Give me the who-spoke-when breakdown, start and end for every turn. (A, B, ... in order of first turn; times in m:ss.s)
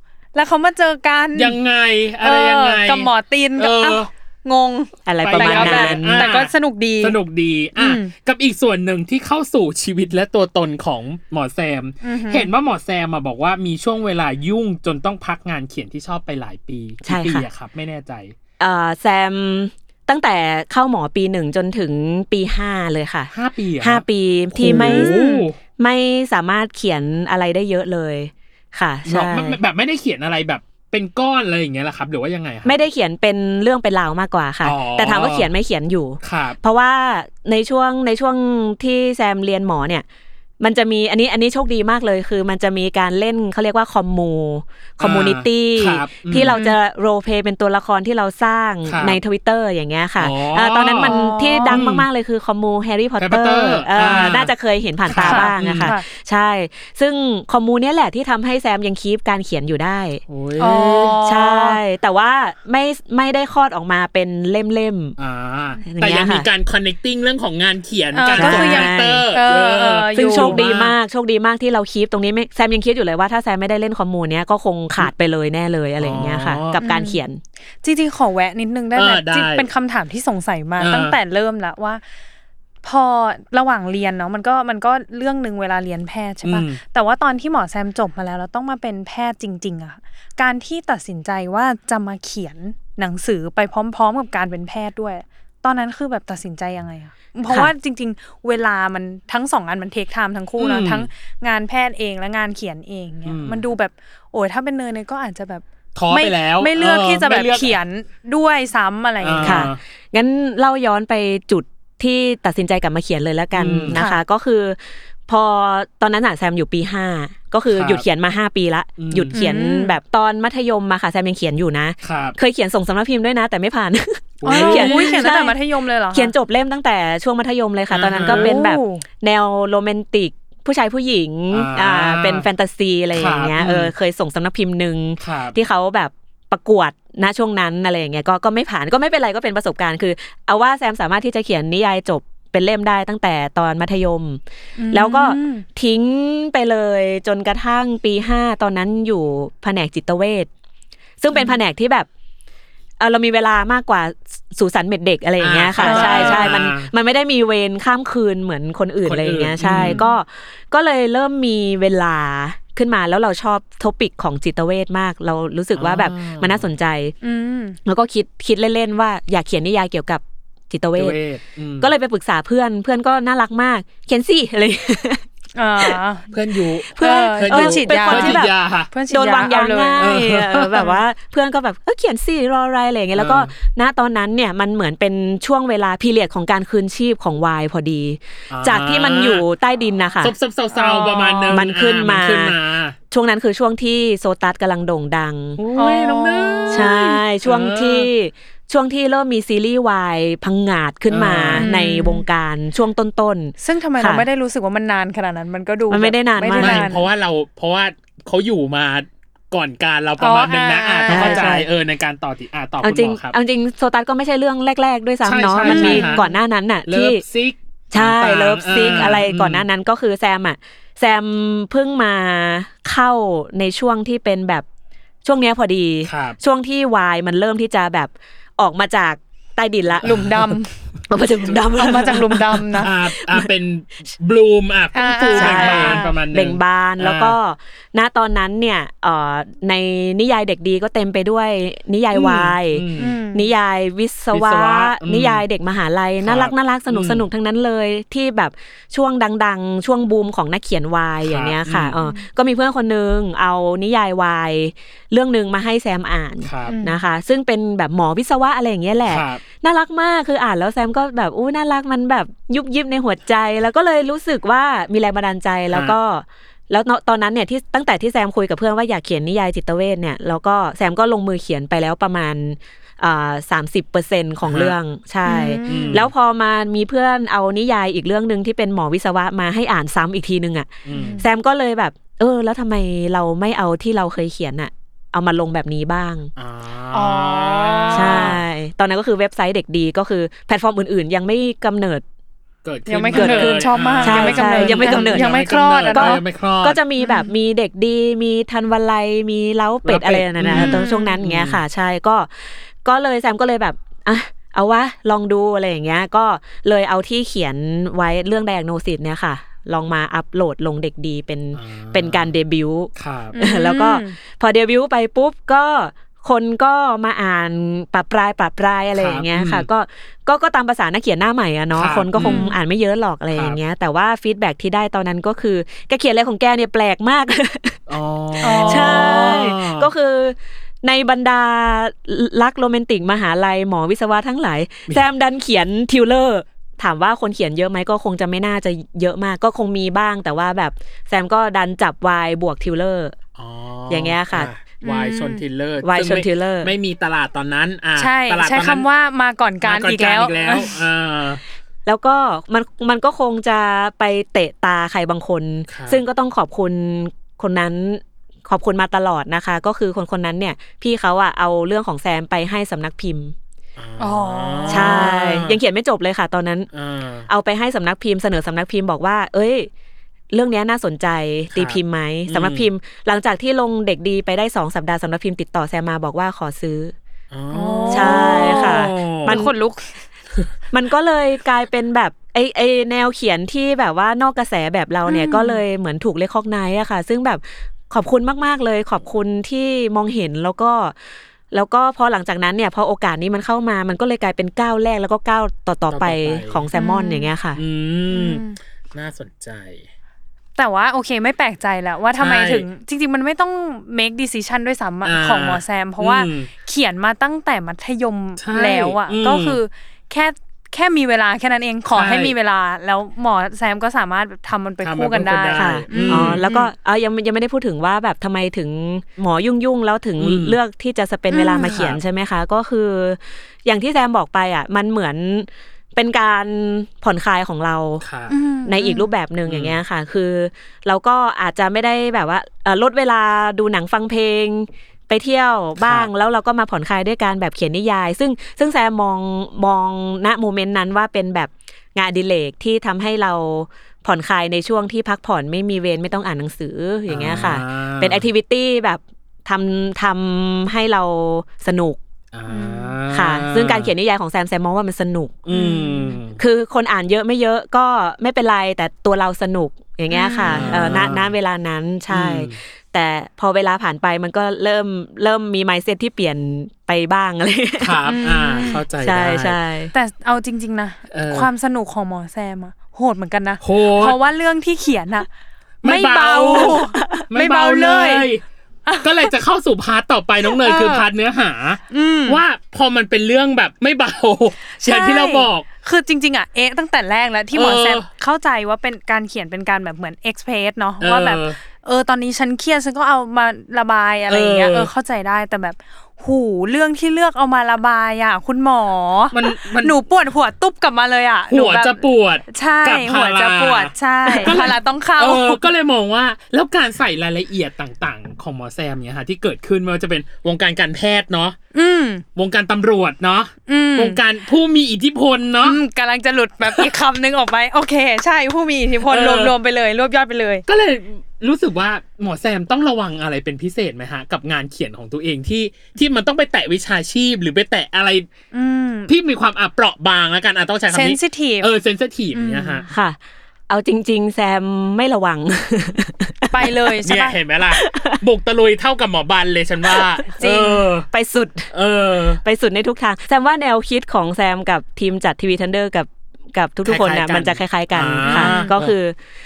0:00.3-0:01.6 A
0:01.3-0:04.1 B
0:02.2-0:07.2 A
0:05.0-0:06.3 C
0:05.2-0:18.3 B
0:07.8-0:08.1 A
0:12.0-0:12.5 A
0:17.0-0:17.4 C
0:18.6-0:25.1 C
0:23.3-0:25.6 B
0:24.6-0:25.4 A
0:25.8-0:29.6 C
0:29.0-0:32.8 B
0:32.6-0:40.0 C
0:34.6-0:35.5 B
0:36.2-0:36.6 B
0:40.6-1:00.2 C
0:45.0-0:46.6 B
0:46.5-0:46.8 A
0:48.8-0:49.2 B
0:50.2-0:52.0 B
0:51.0-0:51.8 A
0:53.2-0:54.5 B
0:55.0-0:55.9 B
0:55.2-0:56.0 A
1:00.3-1:01.2 B
1:00.6-1:01.8 A
1:01.2-1:05.2 C
1:05.2-1:11.0 B
1:05.8-1:06.5 C
1:08.1-1:10.7 A
1:08.3-1:09.2 C
1:10.1-1:17.4 C
1:16.0-1:16.8 B
1:16.8-1:17.2 A
1:17.8-1:22.0 A
1:18.9-1:19.7 B
1:20.8-1:21.2 B
1:22.8-1:49.7 A
1:26.4-1:26.8 B
1:40.6-1:41.1 B
1:43.2-1:43.6 B
1:45.9-1:47.8 B
1:49.2-1:49.8 B
1:49.4-2:05.6 C
1:53.5-1:54.0 B
1:53.9-1:54.2 A
1:57.7-1:58.0 B
1:59.0-1:59.3 B
1:59.3-1:59.9 A
2:02.0-2:02.4 B
2:04.4-2:05.3 B
2:04.4-2:06.3 A
2:06.1-2:24.4 C
2:07.9-2:08.6 B
2:08.2-2:09.0 A
2:11.5-2:12.5 B
2:13.1-2:13.9 B
2:15.2-2:15.6 B
2:24.8-2:25.6 A
2:24.9-2:30.5 C
2:31.2-2:32.1 C
2:31.3-2:31.6 A
2:33.0-2:47.1 C
2:35.4-2:36.9 B
2:35.8-2:36.6 A
2:39.0-2:40.0 B
2:39.6-2:40.2 A
2:45.7-2:46.6 B
2:47.2-2:47.8 A
2:47.8-2:51.2 C
2:50.9-2:51.9 B
2:51.8-2:55.2 C
2:55.6-2:56.3 A
2:56.3-2:58.9 B
2:56.9-2:58.5 C
2:57.0-3:00.0 A
2:59.1-3:10.3 C
3:00.0-3:00.9 B
3:03.1-3:03.5 B
3:08.5-3:09.4 B
3:10.2-3:13.0 B
3:10.8-3:11.6 A
3:11.5-3:12.5 C
3:13.1-3:15.6 C
3:15.6-3:18.1 B
3:15.7-3:16.9 A
3:16.7-3:24.2 C
3:21.1-3:21.7 B
3:21.5-3:22.2 A
3:23.6-3:27.0 A
3:25.9-3:26.9 C
3:26.5-3:33.3 B
3:30.2-3:31.5 A
3:31.1-3:31.7 C
3:32.8-3:37.2 C
3:35.2-3:36.3 B
3:35.6-3:36.2 A
3:36.8-3:39.6 B
3:37.9-3:44.6 C
3:38.8-3:39.1 A
3:45.2-3:50.1 C
3:46.0-3:46.4 B
3:50.0-3:50.5 B
3:50.0-3:50.7 A
3:51.1-3:53.5 C
3:51.7-3:52.9 A
3:52.7-3:57.4 B
3:54.9-3:56.2 A
3:55.3-4:46.3 C
4:02.1-4:03.2 B
4:03.0-4:03.5 A
4:04.3-4:05.4 B
4:06.2-4:07.2 B
4:11.2-4:12.0 B
4:16.4-4:16.8 B
4:16.7-4:17.0 A
4:19.1-4:19.4 B
4:25.7-4:26.0 B
4:34.4-4:34.7 B
4:35.2-4:36.0 A
4:35.6-4:36.1 B
4:40.8-4:41.2 B
4:40.9-4:41.2 A
4:46.4-4:48.4 B
4:46.9-4:48.4 A
4:47.9-4:52.0 C
4:52.6-4:56.8 B
4:52.9-4:56.2 A
4:53.1-4:55.3 C
4:55.9-5:02.3 C
4:57.0-4:57.3 A
4:59.8-5:01.6 B
5:00.5-5:01.1 A
5:02.8-5:27.8 C
5:11.5-5:12.3 B
5:13.0-5:13.4 B
5:13.3-5:14.2 A
5:19.0-5:19.7 B
5:21.7-5:22.5 B
5:22.2-5:22.5 A
5:23.3-5:23.6 B
5:27.9-5:29.9 B
5:28.4-5:43.1 C
5:28.4-5:29.4 A
5:43.4-5:48.8 B
5:43.9-5:44.5 C
5:44.8-5:45.4 A
5:45.8-5:46.7 C
5:48.0-5:50.7 A
5:49.6-5:51.4 B
5:51.8-6:03.3 C
5:55.7-5:56.0 B
6:03.8-6:05.6 B
6:04.0-6:05.2 A
6:04.7-6:06.7 C
6:06.7-6:07.3 B
6:07.3-6:09.7 C
6:10.3-6:16.9 C
6:11.5-6:12.7 B
6:17.3-6:19.4 B
6:17.5-6:19.9 A
6:17.9-6:19.5 C
6:20.7-6:30.9 C
6:25.0-6:25.6 A
6:31.5-6:37.6 C
6:35.9-6:36.7 B
6:36.7-6:37.3 A
6:37.6-6:39.9 B
6:38.1-6:38.6 A
6:40.6-6:56.7 A
6:42.2-6:42.6 B
6:45.0-6:46.5 B
6:48.4-6:49.6 B
6:51.9-6:52.3 B
6:54.8-6:56.4 B
6:55.5-7:08.0 C
7:00.2-7:00.6 B
7:01.3-7:01.8 A
7:01.6-7:02.0 B
7:08.0-7:08.3 B
7:08.3-7:09.1 A
7:08.6-7:32.0 C
7:09.4-7:09.8 B
7:15.8-7:16.1 B
7:27.1-7:28.3 B
7:32.3-7:33.9 B
7:32.5-7:32.9 A
7:33.1-7:35.4 C
7:35.4-7:36.4 B
7:35.5-7:36.2 A
7:36.4-7:48.0 C
7:40.1-7:40.9 A
7:40.4-7:41.3 B
7:42.1-7:42.6 B
7:47.8-7:49.6 B
7:48.0-7:48.8 A
7:49.0-7:49.9 C
7:49.9-7:55.3 A
7:51.1-7:51.5 B
7:53.6-7:54.2 B
7:55.8-7:58.4 B
7:55.8-7:58.2 A
7:56.9-7:57.2 C
7:58.8-7:59.3 A
7:59.0-8:05.7 B
8:00.4-8:01.0 A
8:01.9-8:02.4 A
8:04.7-8:25.6 A
8:07.5-8:08.1 B
8:11.0-8:11.6 B
8:14.3-8:14.9 B
8:19.3-8:20.0 B
8:21.5-8:31.6 B
8:31.7-8:32.2 A
8:32.4-8:35.8 B
8:33.7-8:34.2 A
8:35.6-8:40.6 A
8:39.1-8:39.5 B
8:40.7-8:48.3 B
8:48.5-8:49.1 A
8:49.1-8:52.9 B
8:50.9-8:51.7 A
8:52.3-8:52.9 A
8:52.9-8:53.2 C
8:53.7-8:56.7 C
8:56.5-8:57.4 A
8:57.0-9:01.1 B
8:57.7-8:58.2 C
9:00.4-9:00.9 A
9:01.1-9:01.7 C
9:01.7-9:02.4 B
9:02.4-9:09.2 C
9:06.8-9:08.9 B
9:08.2-9:08.7 A